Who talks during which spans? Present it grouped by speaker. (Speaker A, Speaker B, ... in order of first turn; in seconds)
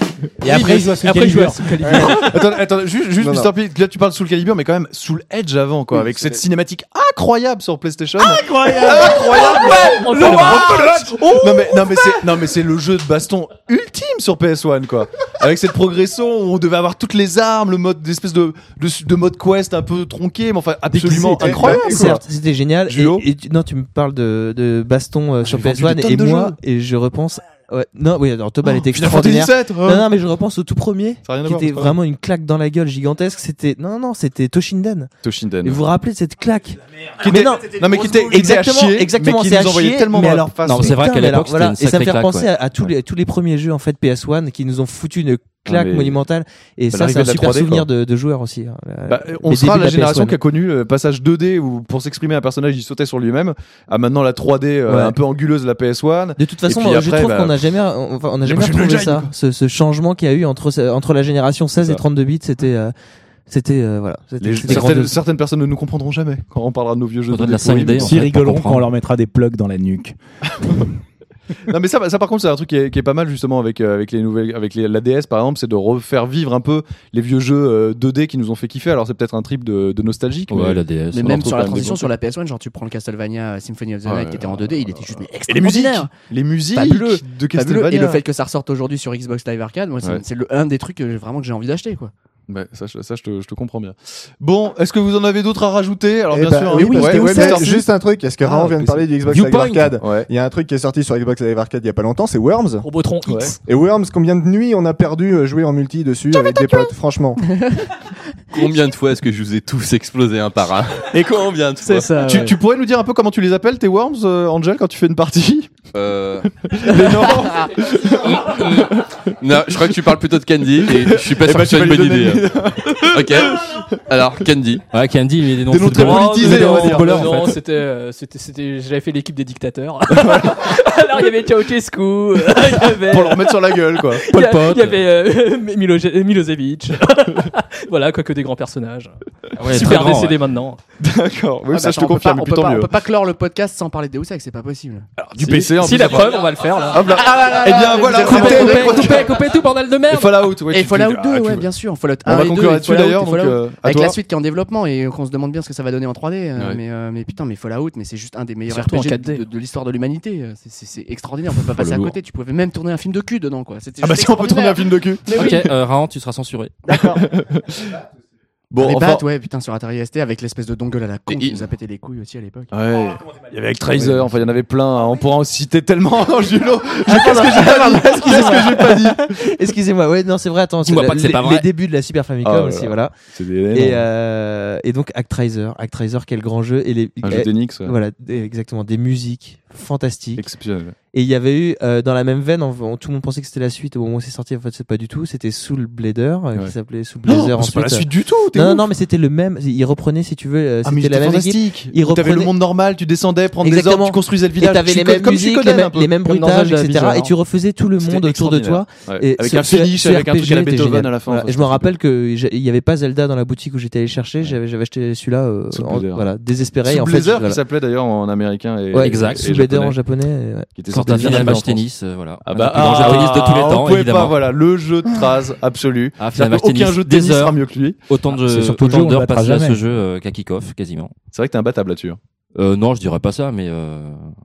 Speaker A: 0.4-2.1, 8.2-9.1, 68.0-70.2, 228.3-229.8
Speaker B: 0.4-2.6, 8.5-12.2, 96.8-97.5, 99.2-99.9, 102.8-103.6, 111.8-112.6, 125.8-140.8, 145.4-150.6, 158.7-159.4, 206.2-207.3
Speaker C: 1.8-2.3, 3.2-3.5, 21.4-22.1, 96.3-102.9, 103.7-107.6
Speaker D: 2.1-22.2, 22.9-23.2, 25.4-26.6, 28.6-30.1, 31.2-31.9, 35.2-35.9, 37.2-41.0, 45.7-46.2, 46.9-47.9, 49.1-57.6, 58.4-59.3, 64.4-68.2, 70.5-70.9, 71.6-80.8, 81.4-82.0, 84.0-88.2, 92.5-97.8, 98.4-99.1, 100.0-100.3, 103.2-103.5, 112.2-115.7, 116.6-124.0, 125.7-127.4, 133.1-134.2, 141.0-142.9, 145.2-149.3, 150.1-151.7, 152.2-154.2, 161.8-162.1, 164.0-165.6, 166.9-168.0, 168.7-169.2, 172.7-179.3, 182.4-184.1, 187.2-187.9, 190.4-190.9, 197.2-198.9, 200.8-206.1, 208.0-211.9, 215.7-216.3, 216.8-219.9, 220.8-221.9, 222.4-228.1, 231.3-232.2
Speaker E: 20.9-35.1, 35.6-50.4, 54.9-55.1, 56.4-62.9, 63.5-65.2, 177.1-183.1, 183.7-190.4, 191.1-202.5, 203.6-217.6, 218.9-221.6
Speaker F: 40.6-42.5, 67.3-68.9, 80.5-82.1, 124.9-127.6, 134.3-135.0, 139.6-140.4, 165.4-166.7, 180.8-181.7, 219.0-219.9, 220.9-224.5, 226.2-231.1, 232.6-234.3
Speaker G: 81.1-86.1, 86.7-92.1, 96.8-97.8, 106.4-106.9, 107.5-107.9, 141.7-145.1, 147.2-149.3, 150.7-165.7, 166.9-167.2, 168.8-172.7
Speaker H: 108.5-112.3, 115.9-116.9, 117.9-124.9